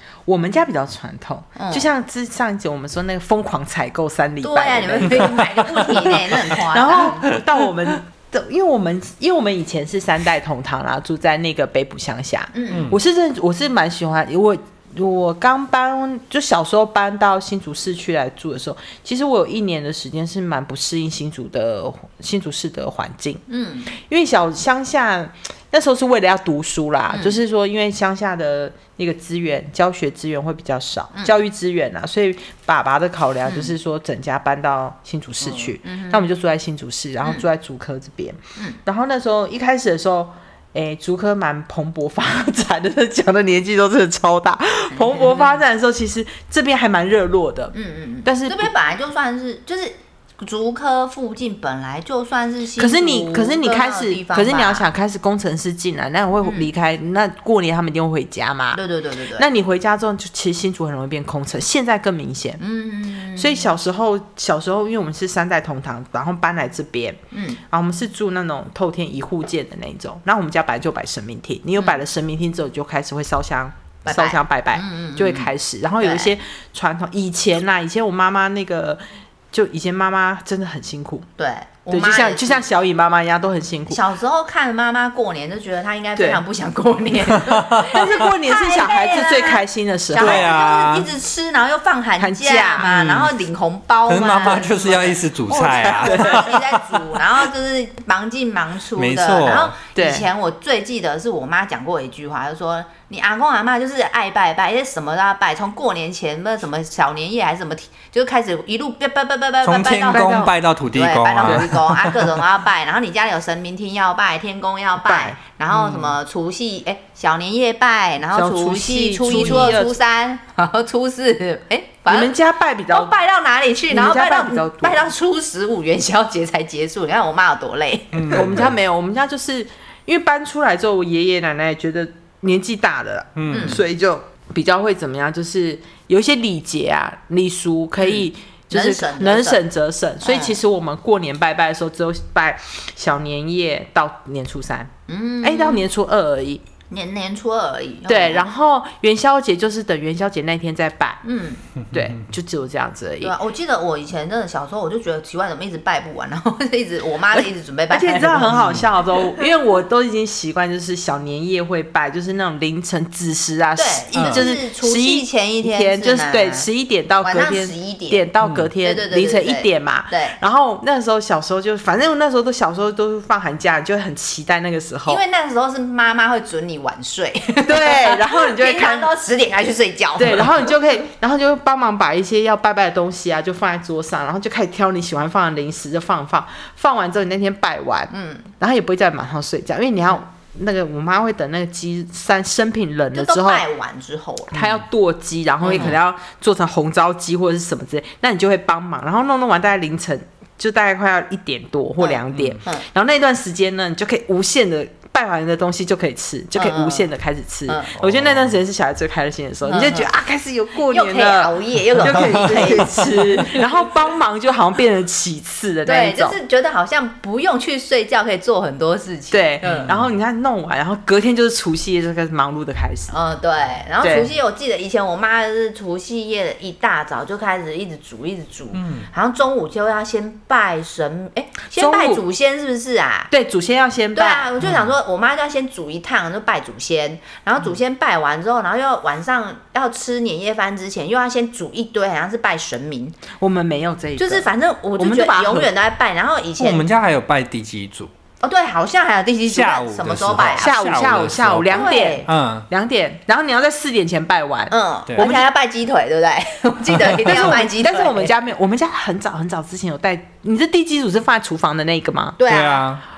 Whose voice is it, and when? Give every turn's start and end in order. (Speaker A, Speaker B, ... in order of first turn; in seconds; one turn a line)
Speaker A: 0.3-48.7
Speaker B: 1.6-1.9
Speaker B: 4.4-7.3
Speaker C: 5.0-6.2
Speaker C: 7.0-7.5
Speaker B: 12.5-12.9
Speaker C: 12.7-13.0
Speaker B: 23.5-23.9
Speaker B: 27.1-27.4
Speaker B: 33.5-33.7
Speaker B: 35.8-36.2
Speaker B: 44.9-45.6
Speaker B: 47.7-54.9
Speaker A: 52.8-58.8
Speaker B: 56.4-56.7
Speaker B: 58.7-59.5
Speaker A: 59.4-62.6
Speaker B: 62.6-63.7
Speaker A: 63.4-81.3
Speaker B: 67.3-67.6
Speaker B: 74.0-76.3
Speaker B: 81.4-82.7
Speaker A: 81.9-84.0
Speaker B: 83.9-122.3
Speaker A: 86.2-86.4
Speaker C: 87.4-88.3
Speaker A: 87.8-90.5
Speaker C: 90.2-91.1
Speaker A: 92.2-92.9
Speaker C: 92.8-93.3
Speaker C: 94.1-97.3
Speaker A: 95.7-96.5
Speaker C: 99.0-99.8
Speaker A: 100.0-100.3
Speaker C: 109.6-112.4
Speaker A: 115.0-116.0
Speaker A: 118.3-120.0
Speaker A: 122.1-123.1
Speaker B: 122.9-128.6
Speaker A: 123.9-125.1
Speaker C: 128.1-128.7
Speaker A: 128.3-146.6
Speaker C: 133.4-133.8
Speaker B: 133.5-133.8
Speaker B: 138.0-139.6
Speaker B: 140.2-140.6
Speaker B: 145.1-145.8
Speaker B: 146.9-148.5
Speaker A: 148.1-151.2
Speaker B: 151.2-151.6
Speaker C: 151.9-152.2
Speaker A: 151.9-153.3
Speaker B: 153.2-158.8
Speaker A: 157.3-175.2
Speaker C: 158.5-158.9
Speaker B: 163.8-166.7
Speaker C: 164.2-164.5
Speaker B: 167.2-168.2
Speaker C: 168.4-168.7
Speaker B: 168.8-170.4
Speaker B: 175.1-180.8
Speaker A: 177.7-179.1
Speaker A: 180.2-193.7
Speaker B: 188.1-188.5
Speaker B: 193.1-194.6
Speaker A: 194.5-216.4
Speaker B: 195.6-196.0
Speaker B: 202.0-202.8
Speaker C: 202.3-202.6
Speaker B: 206.6-207.1
Speaker B: 207.7-208.0
Speaker C: 208.0-208.6
Speaker B: 209.7-210.1
Speaker B: 210.9-213.6
Speaker C: 212.0-213.6
Speaker B: 215.9-219.9
Speaker A: 219.3-223.2
Speaker C: 219.6-220.1
Speaker B: 223.1-233.3
Speaker A: 224.0-224.3
Speaker C: 228.7-229.1
Speaker A: 231.8-232.2
Speaker A: 233.3-234.5
Speaker B: 234.2-243.2
Speaker C: 234.6-234.9
Speaker A: 243.4-245.7
Speaker B: 244.2-246.9
Speaker C: 246.6-248.1
Speaker B: 248.4-250.8
Speaker C: 249.5-252.7
Speaker A: 250.6-255.5
Speaker B: 251.7-252.3
Speaker B: 254.7-258.3
Speaker C: 257.0-257.5
Speaker A: 257.2-262.4
Speaker B: 262.4-262.8
Speaker C: 262.5-263.0